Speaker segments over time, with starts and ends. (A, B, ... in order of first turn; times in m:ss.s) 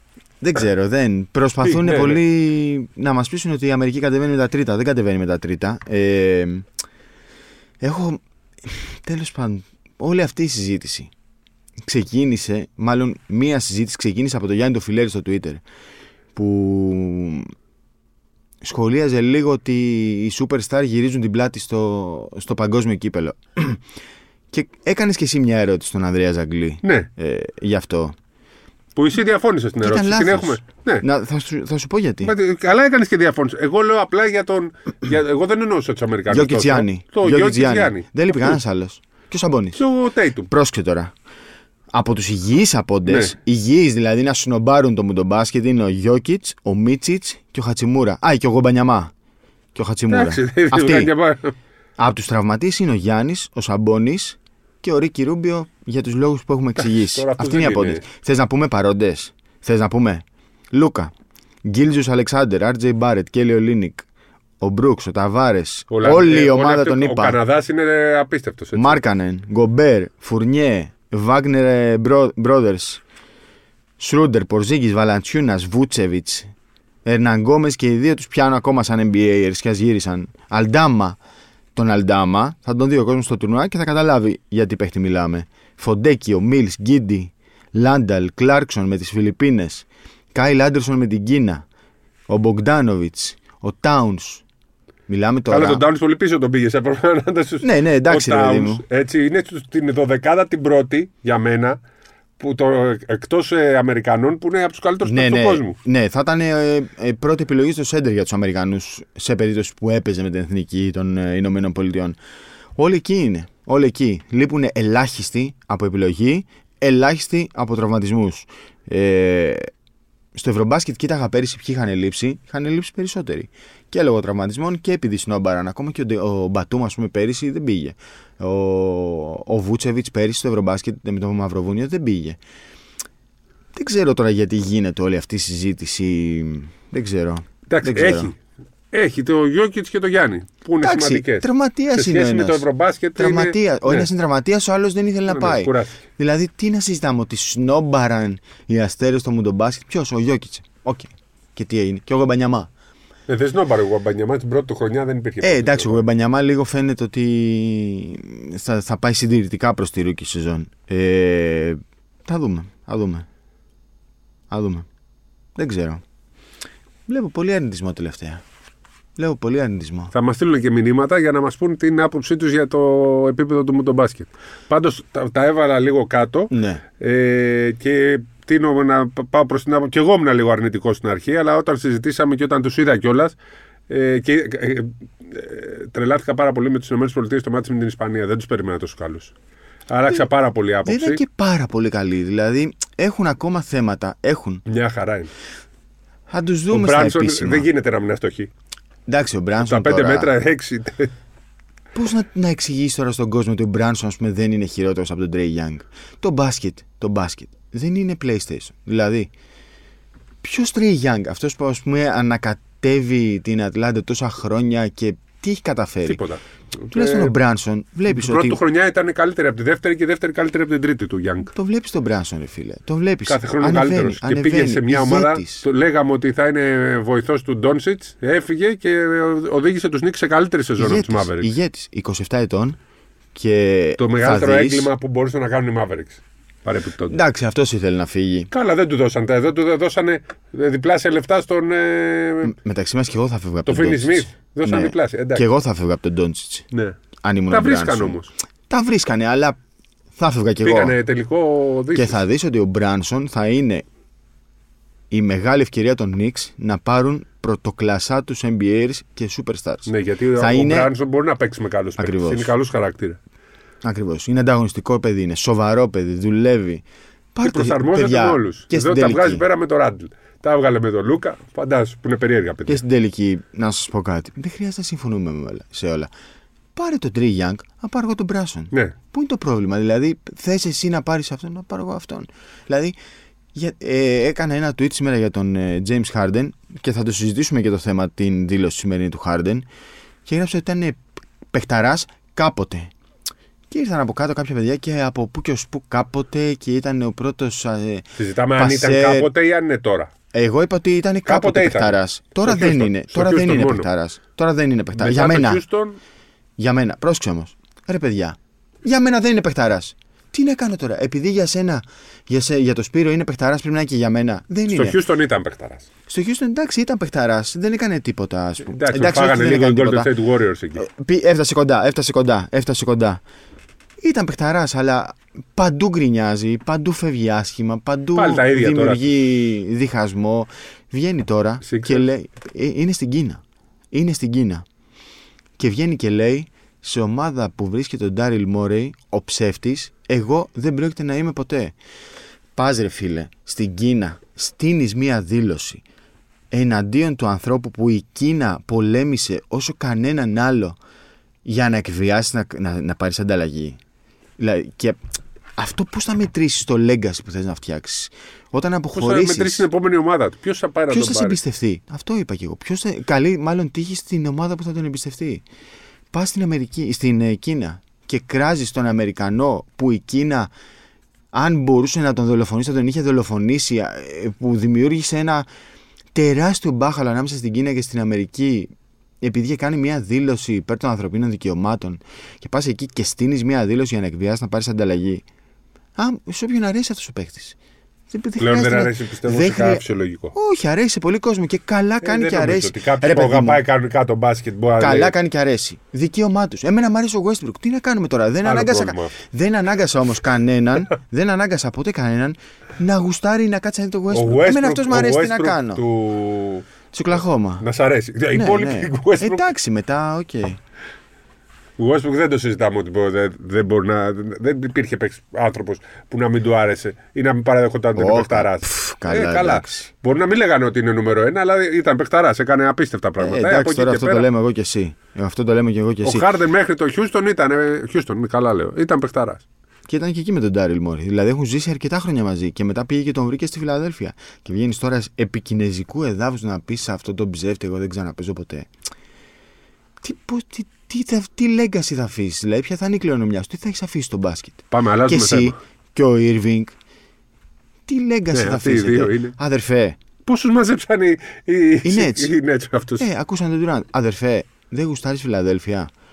0:00.4-0:06.7 A
0:01.6-0:02.2 B
0:07.8-0:11.1 A
0:11.8-0:15.6 A
0:16.4-0:17.5 A
0:18.6-0:23.8 A
0:24.5-0:28.2 A
0:26.8-0:27.1 B
0:29.0-0:31.0 B
0:29.8-0:32.3 A
0:32.2-0:38.6 B
0:36.3-0:39.8 A
0:39.8-0:40.5 B
0:40.5-0:41.1 A
0:41.9-0:49.1 A
0:43.1-0:43.4 B
0:49.8-0:51.1 A
0:50.1-0:51.6 B
0:52.0-1:01.1 A
0:56.8-0:58.0 B
1:01.6-1:04.1 A
1:04.6-1:07.4 A
1:05.9-1:09.0 B
1:08.8-1:13.0 A
1:14.0-1:16.5 A
1:17.0-1:21.2 A
1:21.8-1:31.6 A
1:32.3-1:34.4 A
1:35.1-1:35.8 A
1:35.5-1:41.8 B
1:37.6-1:38.8 A
1:42.4-1:45.8 B
1:45.0-1:52.2 A
1:52.8-1:59.7 A
2:00.4-2:12.4 A
2:13.7-2:18.3 A
2:17.7-2:18.4 B
2:18.9-2:24.1 B
2:20.8-2:32.7 A
2:25.3-2:26.0 B
2:33.3-2:36.1 B
2:35.4-2:43.3 A
2:44.5-2:44.9 A
2:45.6-2:46.0 A
2:47.1-2:48.4 A
2:49.2-2:50.1 A
2:50.1-3:03.4 B
2:56.5-2:56.8 A
3:03.9-3:09.3 B
3:09.9-3:11.2 B
3:10.8-3:14.6 A
3:14.7-3:15.3 B
3:16.3-3:17.7 A
3:16.7-3:18.5 B
3:19.1-3:20.3 A
3:19.6-3:21.1 B
3:22.0-3:29.3 A
3:30.4-3:36.2 A
3:36.0-3:37.4 B
3:36.9-3:38.6 A
3:38.1-3:41.5 B
3:41.5-3:45.6 A
3:43.3-3:51.5 B
3:50.8-3:52.8 A
3:53.4-3:54.9 A
3:54.0-3:57.2 B
3:57.1-3:58.5 A
3:58.5-4:02.6 B
4:02.4-4:06.7 A
4:03.6-4:05.5 B
4:07.2-4:08.2 A
4:07.5-4:08.3 B
4:08.7-4:09.6 A
4:10.2-4:11.0 A
4:10.6-4:12.2 B
4:11.9-4:13.8 A
4:15.1-4:20.9 A
4:19.9-4:23.2 B
4:22.0-4:22.5 A
4:23.8-4:29.4 A
4:27.4-4:32.8 B
4:32.7-4:36.1 A
4:36.8-4:43.0 A
4:43.6-4:49.7 A
4:50.3-4:51.0 A
4:51.5-4:52.9 A
4:53.7-4:59.3 A
4:58.2-5:00.1 B
5:00.3-5:05.6 A
5:01.3-5:03.9 B
5:05.0-5:06.0 B
5:06.6-5:15.0 A
5:14.7-5:15.9 B
5:16.1-5:20.1 A
5:18.7-5:20.8 B
5:20.8-5:23.2 A
5:24.0-5:33.4 A
5:28.2-5:29.1 B
5:31.6-5:32.0 B
5:33.9-5:34.6 A
5:35.6-5:41.8 A
5:42.6-5:45.8 A
5:46.5-5:50.8 A
5:51.4-5:53.8 A
5:54.4-5:55.0 A
5:55.6-5:59.7 A
5:58.9-6:01.4 B
6:00.9-6:05.4 A
6:06.1-6:10.5 A
6:11.3-6:15.5 A
6:16.2-6:18.7 A
6:19.2-6:25.2 A
6:26.0-6:27.6 A
6:28.1-6:33.6 A
6:28.4-6:30.3 B
6:32.0-6:35.1 B
6:34.8-6:45.8 A
6:38.4-6:39.1 B
6:44.1-6:46.7 B
6:46.9-6:47.6 A
6:47.6-6:49.5 B
6:48.3-6:50.6 A
6:51.8-7:04.3 B
6:58.0-6:59.9 A
7:03.2-7:06.3 A
7:06.0-7:09.4 B
7:09.9-7:18.7 A
7:20.0-7:26.7 A
7:24.7-7:25.6 B
7:27.9-7:30.0 A
7:28.3-7:29.4 B
7:30.3-7:33.1 B
7:31.8-7:32.3 A
7:33.0-7:35.9 A